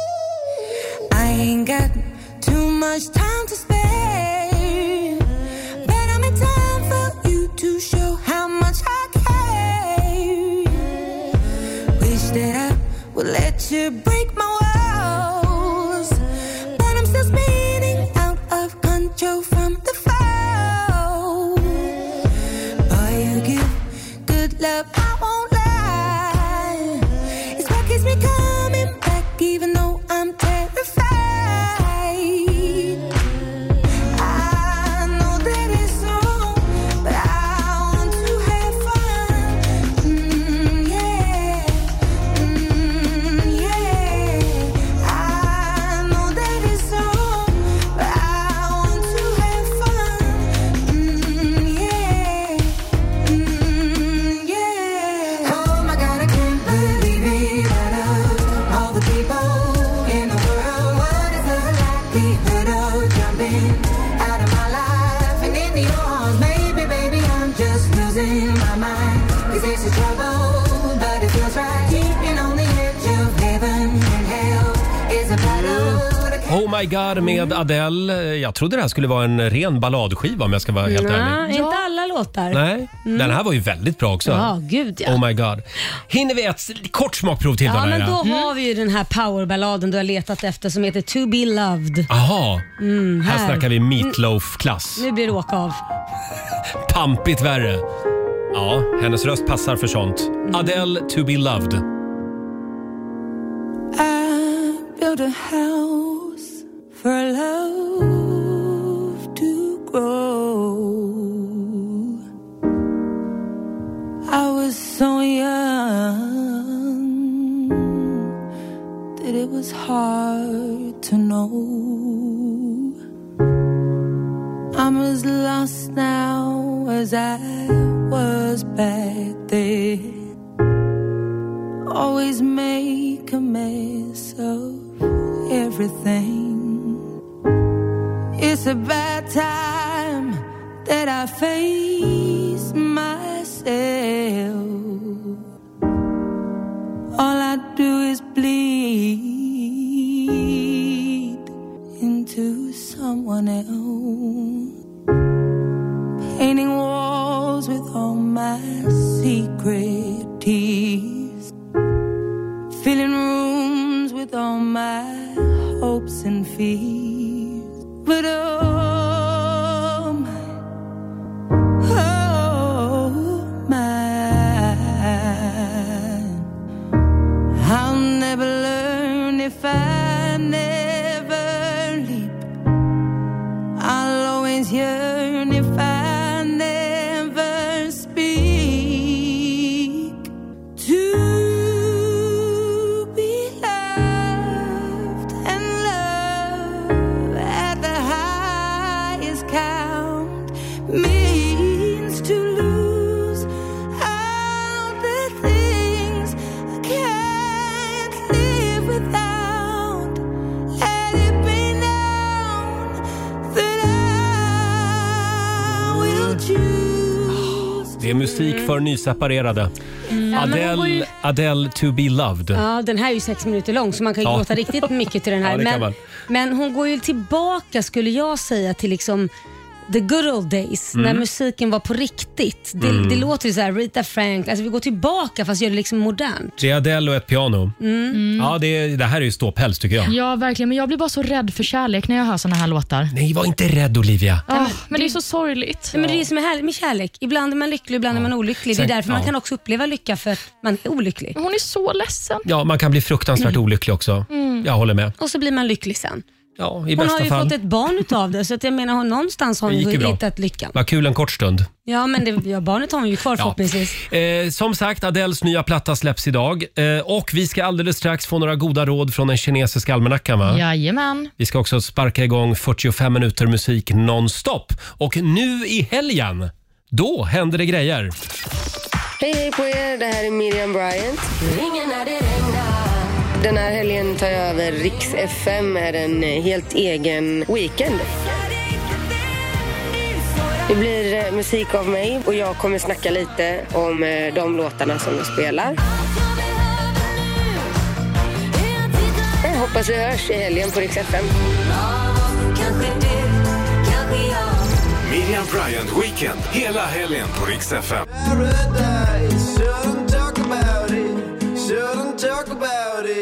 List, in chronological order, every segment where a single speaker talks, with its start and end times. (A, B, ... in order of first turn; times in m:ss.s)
0:01.1-0:05.2 A
0:05.8-0:10.9 A
0:12.0-0:16.2 A
0:16.7-0:22.0 A
0:22.9-0:33.0 A
0:34.1-1:16.5 A
1:15.4-1:21.4 B
1:17.2-1:17.6 C
1:20.8-1:23.4 C
1:21.4-1:21.8 D
1:22.5-1:24.5 B
1:24.2-1:25.2 C
1:25.0-1:28.2 B
1:27.6-1:32.1 C
1:28.2-1:28.5 D
1:32.1-1:32.7 B
1:32.8-1:34.2 C
1:33.2-1:35.0 B
1:35.0-1:35.8 C
1:36.8-1:37.8 B
1:38.5-1:41.8 B
1:43.9-1:52.2 A
1:54.3-1:58.3 A
1:59.2-2:02.9 A
2:04.7-2:10.2 A
2:11.9-2:17.0 A
2:18.4-2:25.4 A
2:27.1-2:31.4 A
2:32.0-2:34.7 A
2:36.3-2:41.5 A
2:42.7-2:50.4 A
2:51.8-2:56.4 A
2:57.5-3:02.4 A
3:03.8-3:10.2 A
3:10.8-3:30.2 A
3:30.8-3:37.9 A
3:35.7-3:36.4 B
3:37.5-3:39.7 B
3:38.2-3:38.7 C
3:40.1-3:41.0 C
3:40.3-3:42.6 B
3:42.5-3:49.3 C
3:44.2-3:44.9 B
3:45.4-3:45.9 B
3:49.9-3:56.6 C
3:50.9-3:51.2 B
3:52.8-3:53.3 B
3:56.6-3:57.7 B
3:57.8-3:58.2 C
3:58.1-3:58.5 D
3:58.4-4:00.1 B
4:00.0-4:03.1 D
4:03.1-4:04.4 B
4:04.5-4:06.2 D
4:04.5-4:05.1 C
4:05.9-4:11.4 C
4:08.1-4:09.3 B
4:11.4-4:12.4 D
4:12.4-4:15.1 B
4:14.3-4:14.7 D
4:15.2-4:16.2 C
4:16.6-4:17.5 B
4:17.0-4:20.8 C
4:19.7-4:20.2 B
4:20.7-4:21.7 B
4:21.8-4:24.0 C
4:23.4-4:30.6 B
4:30.5-4:31.3 D
4:31.4-4:38.1 B
4:39.2-4:48.2 E
4:50.7-4:55.8 E
4:59.4-5:01.3 E
5:01.8-5:04.7 A
5:05.0-5:08.1 F
5:11.9-5:12.6 F